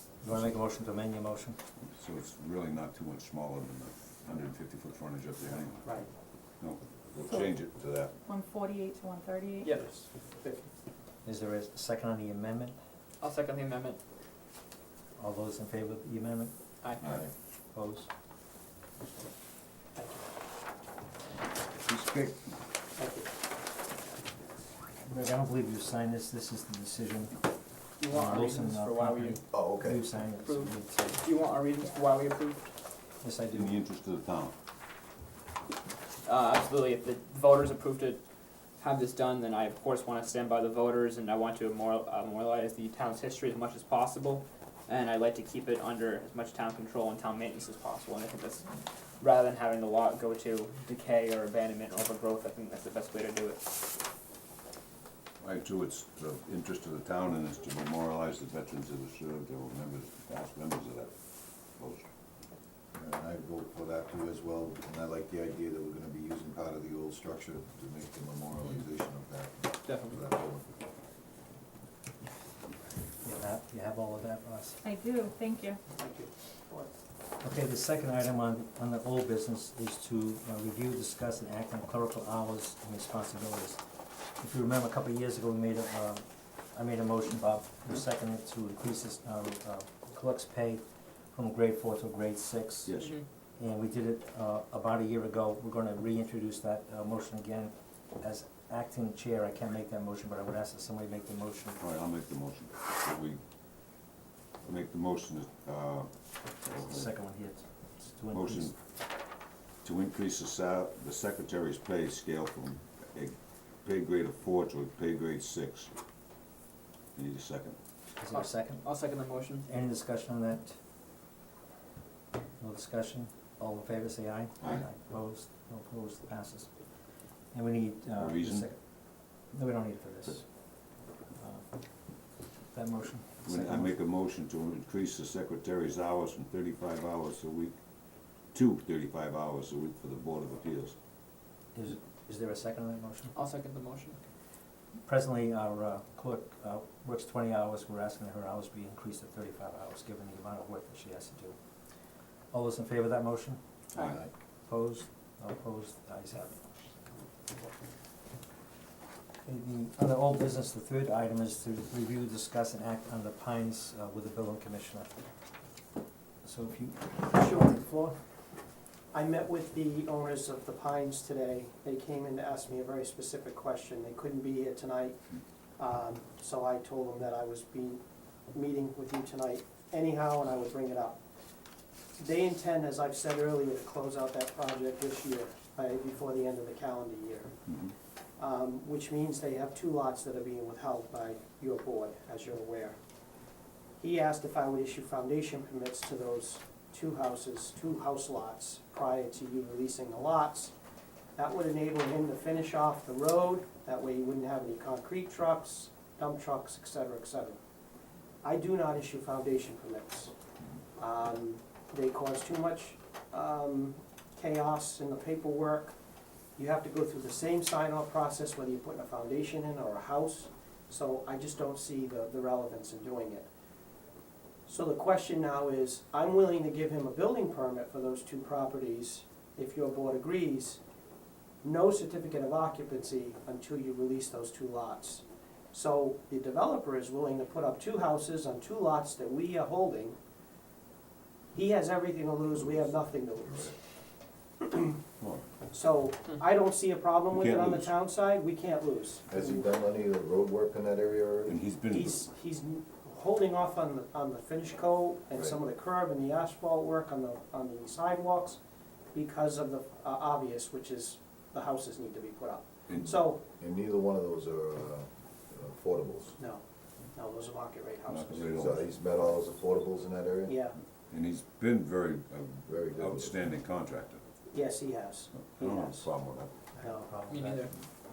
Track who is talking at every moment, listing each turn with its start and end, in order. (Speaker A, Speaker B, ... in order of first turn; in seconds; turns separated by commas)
Speaker A: 0.2-1.6, Speaker B: 1.9-6.0, Speaker C: 5.8-6.1, Speaker B: 6.6-8.1, Speaker D: 8.2-9.7, Speaker E: 9.6-9.9, Speaker C: 9.8-10.5, Speaker A: 11.2-12.8, Speaker E: 13.2-14.0, Speaker A: 15.2-16.5, Speaker E: 16.8-17.1, Speaker A: 17.7-18.1, Speaker C: 20.0-20.2, Speaker B: 21.9-22.5, Speaker C: 23.0-23.3, Speaker A: 25.0-27.4, Speaker E: 28.0-29.4, Speaker A: 28.0-31.2, Speaker F: 29.5-30.0, Speaker E: 30.4-32.6, Speaker A: 33.2-33.7, Speaker B: 33.5-34.5, Speaker E: 36.2-38.2, Speaker E: 38.8-53.6, Speaker B: 55.4-62.0, Speaker F: 63.0-70.7, Speaker E: 69.8-70.2, Speaker A: 73.2-74.8, Speaker D: 74.8-75.8, Speaker C: 75.9-76.9, Speaker A: 77.4-83.8, Speaker A: 84.4-86.2, Speaker A: 86.7-93.0, Speaker B: 92.8-93.1, Speaker A: 93.6-101.8, Speaker B: 101.8-103.4, Speaker B: 104.7-107.1, Speaker A: 106.7-108.7, Speaker B: 108.3-108.7, Speaker B: 109.8-115.9, Speaker B: 117.2-117.8, Speaker A: 118.2-119.0, Speaker E: 118.3-119.7, Speaker A: 119.6-120.8, Speaker A: 122.6-126.7, Speaker B: 124.6-124.9, Speaker A: 127.5-130.7, Speaker B: 128.2-128.7, Speaker A: 131.3-132.2, Speaker A: 132.7-134.0, Speaker B: 133.5-137.8, Speaker B: 138.5-140.9, Speaker A: 141.8-143.3, Speaker E: 143.3-144.2, Speaker A: 145.1-151.6, Speaker A: 152.5-153.6, Speaker A: 154.7-156.7, Speaker A: 159.4-165.2, Speaker A: 166.4-168.1, Speaker C: 167.3-168.1, Speaker C: 169.1-175.2, Speaker C: 175.8-181.2, Speaker C: 182.2-187.6, Speaker C: 188.4-193.0, Speaker C: 194.0-200.7, Speaker C: 201.4-207.6, Speaker C: 208.4-210.3, Speaker C: 211.0-216.0, Speaker C: 216.6-223.5, Speaker C: 224.7-230.8, Speaker C: 231.6-240.2, Speaker C: 241.5-243.8, Speaker C: 244.6-244.9, Speaker B: 245.2-245.5, Speaker C: 245.7-249.7, Speaker B: 247.3-247.9, Speaker F: 249.3-251.6, Speaker B: 251.5-252.3, Speaker C: 251.9-258.6, Speaker C: 259.1-263.4, Speaker B: 262.9-263.1, Speaker F: 263.5-266.3, Speaker C: 266.4-266.6, Speaker C: 267.1-268.5, Speaker B: 268.1-269.0, Speaker F: 268.5-270.6, Speaker C: 270.4-270.8, Speaker B: 271.1-274.2, Speaker F: 272.7-273.5, Speaker C: 274.5-276.1, Speaker B: 275.3-276.6, Speaker A: 276.7-277.9, Speaker C: 276.8-277.1, Speaker E: 277.3-277.7